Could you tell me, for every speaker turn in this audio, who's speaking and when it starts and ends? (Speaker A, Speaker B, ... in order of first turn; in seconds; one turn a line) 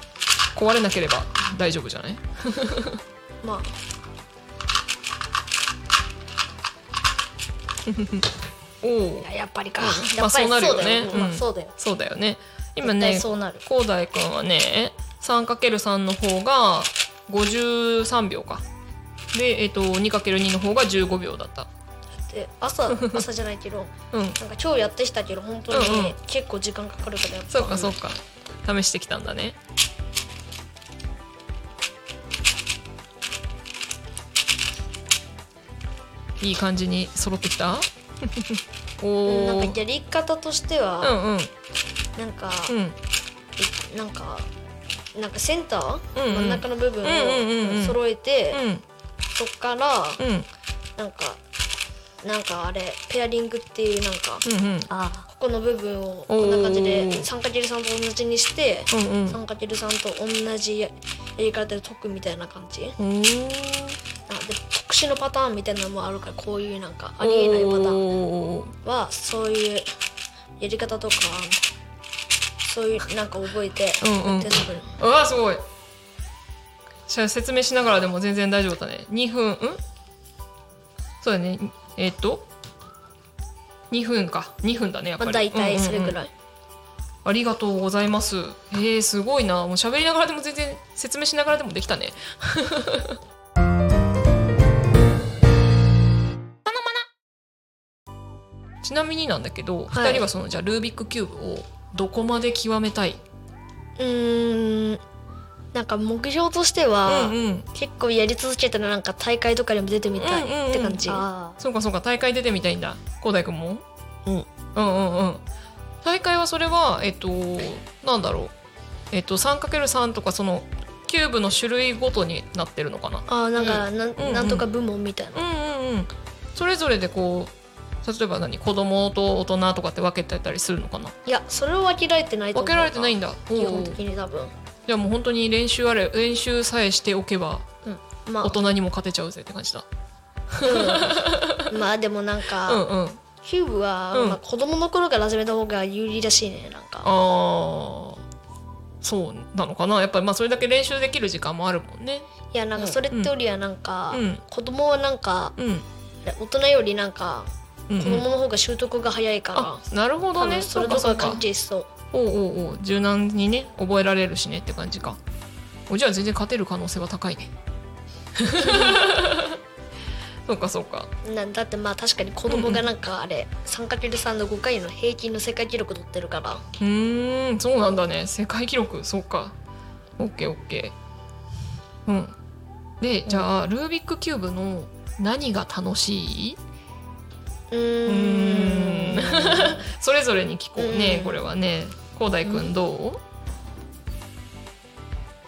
Speaker A: 0.5-3.0
Speaker B: 3.4-3.7
Speaker A: 7.8-8.3
Speaker A: 8.8-9.2
Speaker B: 9.2-11.2
Speaker A: 9.8-18.6
Speaker C: 10.2-11.7
Speaker C: 12.8-13.6
Speaker A: 19.3-21.7
Speaker B: 22.3-27.9
Speaker A: 23.0-23.2
Speaker A: 24.1-24.4
Speaker A: 25.7-26.2
Speaker A: 27.5-29.6
Speaker A: 36.4-39.8
Speaker B: 39.2-41.2
Speaker A: 41.0-41.5
Speaker B: 42.2-42.7
Speaker A: 42.7-43.0
Speaker B: 43.6-44.5
Speaker B: 45.1-48.6
Speaker A: 46.1-48.0
Speaker A: 48.5-48.8
Speaker B: 49.3-50.2
Speaker A: 50.2-50.5
Speaker B: 51.0-51.4
Speaker B: 52.2-54.4
Speaker A: 54.4-54.9
Speaker C: 54.9-55.3
Speaker B: 55.3-63.0
Speaker A: 56.3-57.3
Speaker A: 58.9-59.4
Speaker A: 63.0-64.0
Speaker B: 64.3-68.0
Speaker A: 67.2-68.7
Speaker B: 68.8-69.9
Speaker B: 70.6-71.6
Speaker B: 72.6-74.9
Speaker A: 74.0-75.6
Speaker A: 77.1-79.8
Speaker A: 81.2-82.5
Speaker A: 83.9-86.2
Speaker B: 85.2-86.3
Speaker A: 87.2-93.2
Speaker A: 96.7-97.0
Speaker A: 98.8-103.2
Speaker B: 99.9-100.2
Speaker B: 104.0-105.0
Speaker B: 105.7-111.5
Speaker A: 107.0-107.7
Speaker A: 110.2-113.8
Speaker A: 114.7-115.4
Speaker A: 116.0-118.5
Speaker A: 119.1-124.6
Speaker B: 123.3-125.4
Speaker A: 125.3-127.5
Speaker A: 128.0-131.1
Speaker B: 131.2-134.5
Speaker A: 132.5-134.0
Speaker A: 134.9-137.7
Speaker B: 137.8-138.6
Speaker A: 138.4-139.8
Speaker A: 140.5-141.7
Speaker B: 140.6-142.8
Speaker A: 142.7-143.2
Speaker B: 143.4-147.1
Speaker A: 144.1-144.4
Speaker A: 147.0-148.2
Speaker A: 149.0-152.3
Speaker B: 152.5-155.5
Speaker A: 154.1-154.4
Speaker A: 155.6-155.8
Speaker B: 156.2-159.8
Speaker A: 157.9-158.2
Speaker A: 159.5-161.4
Speaker B: 160.4-161.9
Speaker A: 162.1-165.2
Speaker A: 165.9-167.5
Speaker A: 168.3-169.6
Speaker A: 170.5-171.1
Speaker B: 171.2-176.6
Speaker A: 172.5-172.8
Speaker A: 176.8-179.5
Speaker A: 180.2-180.9
Speaker A: 182.1-182.3
Speaker A: 183.0-186.6
Speaker B: 187.7-189.8
Speaker A: 188.1-193.2
Speaker B: 190.8-191.3